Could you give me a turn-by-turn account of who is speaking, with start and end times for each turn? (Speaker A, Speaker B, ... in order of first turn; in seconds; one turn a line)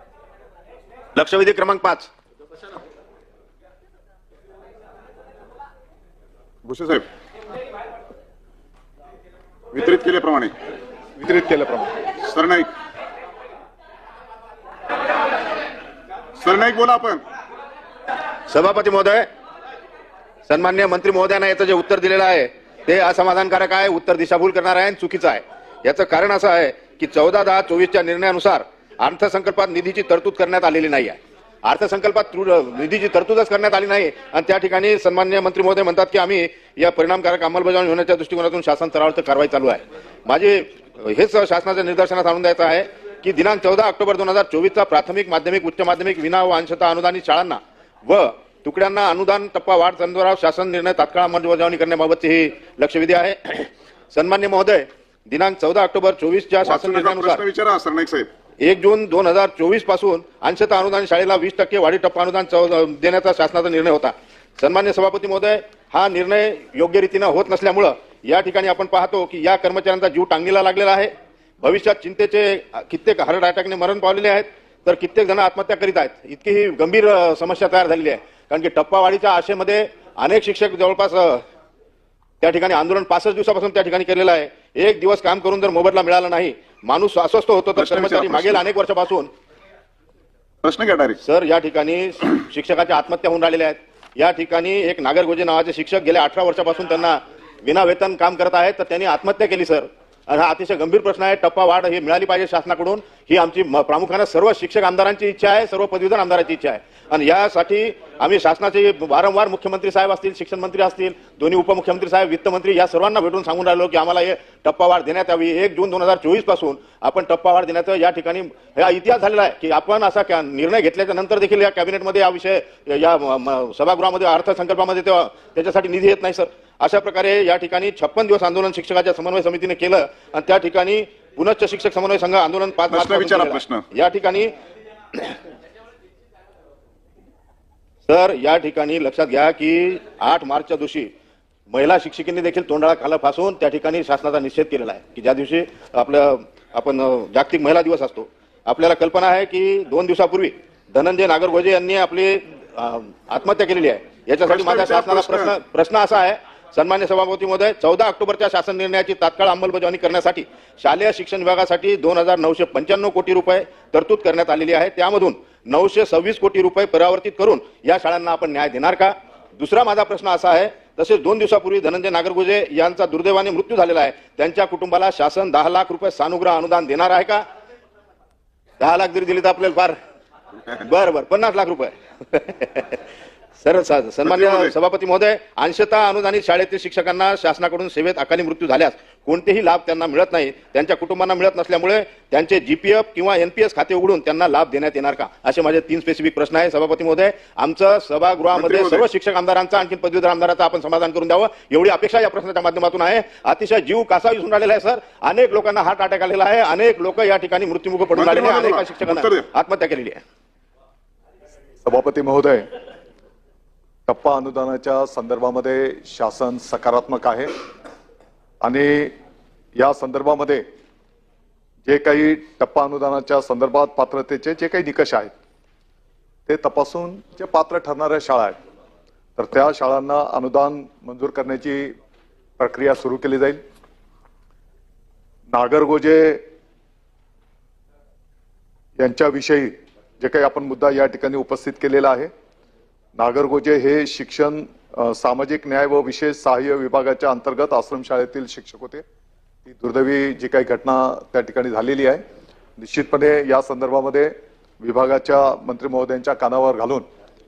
Speaker A: 1.2-2.1
Speaker B: 6.6-7.1
Speaker B: 9.7-10.5
Speaker C: 11.2-11.9
Speaker B: 12.2-12.7
Speaker B: 16.4-17.2
Speaker A: 18.5-19.3
Speaker A: 20.5-57.4
Speaker B: 56.6-58.3
Speaker A: 58.6-81.4
Speaker A: 82.4-89.3
Speaker B: 87.8-88.6
Speaker B: 90.6-91.2
Speaker A: 91.2-134.5
Speaker B: 132.9-133.9
Speaker A: 138.1-141.1
Speaker A: 141.7-177.4
Speaker B: 154.5-155.6
Speaker A: 178.8-179.9
Speaker A: 180.7-183.0
Speaker A: 183.6-210.2
Speaker B: 184.2-184.7
Speaker B: 198.6-199.0
Speaker B: 208.1-209.5
Speaker C: 211.8-212.7
Speaker C: 214.1-217.5
Speaker C: 218.6-219.1
Speaker C: 219.8-220.6
Speaker C: 221.9-225.3
Speaker C: 226.5-228.6
Speaker C: 229.4-231.9
Speaker C: 232.6-233.6
Speaker C: 235.5-236.4
Speaker C: 239.0-242.3
Speaker C: 243.2-249.0
Speaker C: 249.7-252.2
Speaker C: 252.8-257.1